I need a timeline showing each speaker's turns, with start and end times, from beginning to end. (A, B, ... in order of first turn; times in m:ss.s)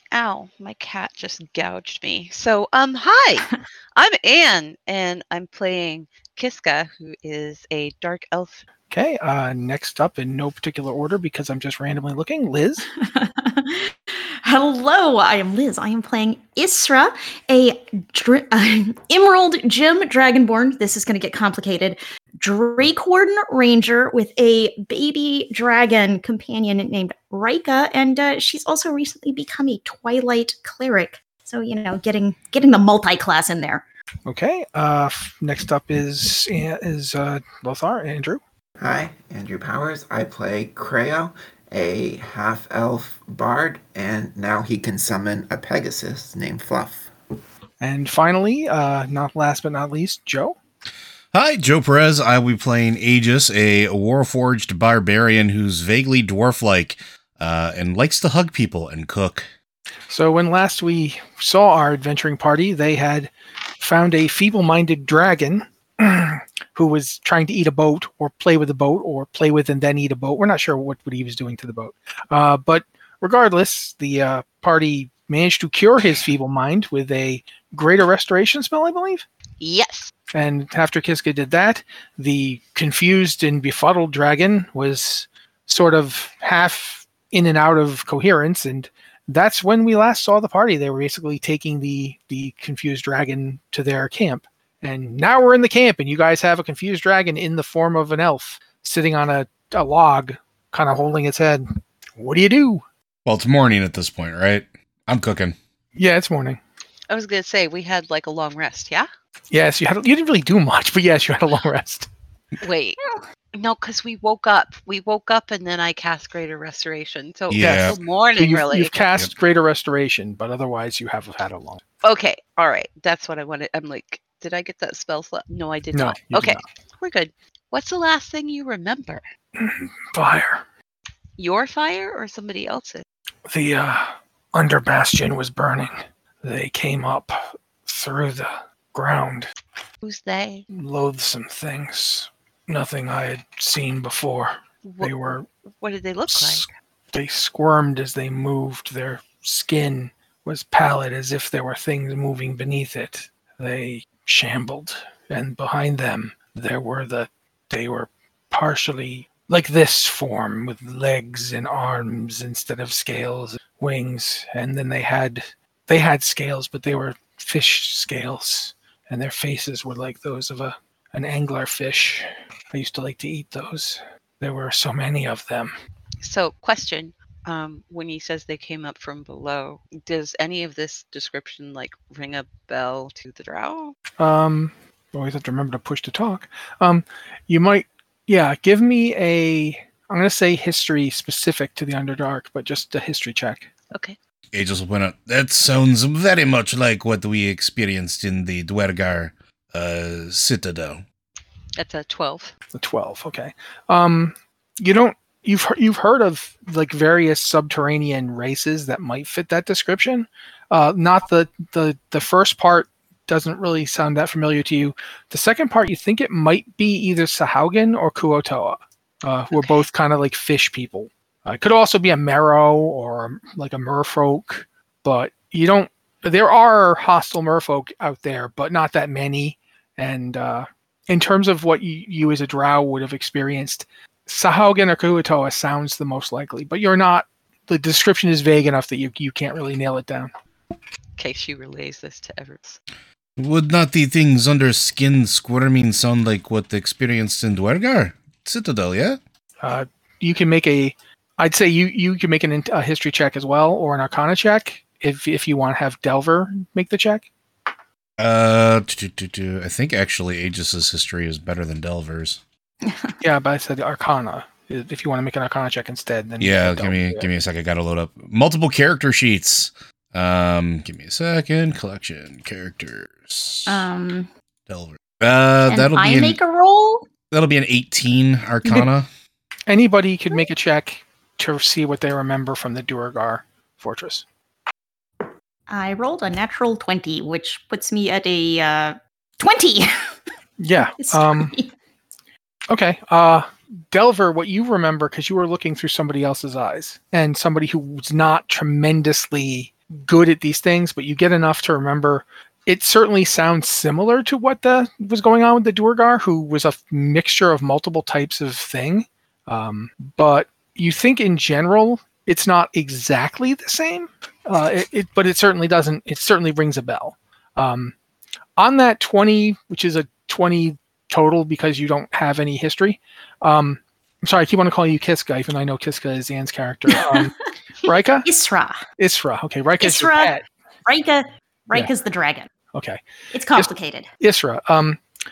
0:00.1-0:08.6 A
0:08.9-0:12.9 B
0:12.9-0:33.8 C
0:34.3-0:38.4 B
0:38.8-0:47.1 D
0:47.8-0:50.6 B
0:51.3-0:59.5 E
1:00.1-1:19.2 B
1:19.6-1:20.1 A
1:20.3-1:42.8 B
1:43.2-1:45.6 E
1:46.0-1:46.6 B
1:47.1-1:49.1 A
1:49.5-1:52.1 B
1:52.6-1:53.0 A
1:53.5-1:58.9 A
1:57.5-1:58.0 E
1:57.6-2:01.8 B
2:02.0-2:09.2 A
2:05.9-2:06.6 B
2:09.6-2:10.6 B
2:11.4-2:13.0 A
2:13.5-2:19.5 B
2:20.0-2:20.7 A
2:20.7-2:25.4 B
2:24.8-2:26.7 A
2:26.3-2:55.7 B
2:56.2-3:04.0 A
3:04.2-3:13.7 B
3:13.9-3:14.2 A
3:14.5-3:21.0 E
3:21.8-3:22.5 A
3:22.7-4:00.3 B
4:01.2-4:02.8 A
4:03.4-4:09.2 E
4:09.6-4:17.3 B
4:18.2-4:22.4 E
4:22.8-4:23.2 C
4:23.2-4:27.3 B
4:26.4-4:33.8 E
4:33.7-4:34.3 C
4:34.7-4:36.4 E
4:35.7-4:37.1 C
4:37.3-4:39.1 E
4:39.7-4:44.2 B
4:45.7-4:49.9 C
4:50.6-4:51.6 B
4:51.0-4:51.7 C
4:52.7-5:18.0 B
5:18.6-5:28.3 B
5:26.9-5:27.3 C
5:27.9-5:28.8 C
5:29.0-5:30.4 B
5:29.8-5:30.3 C
5:30.9-5:32.5 C
5:32.7-5:33.0 B
5:33.3-5:34.1 C
5:33.6-5:35.0 B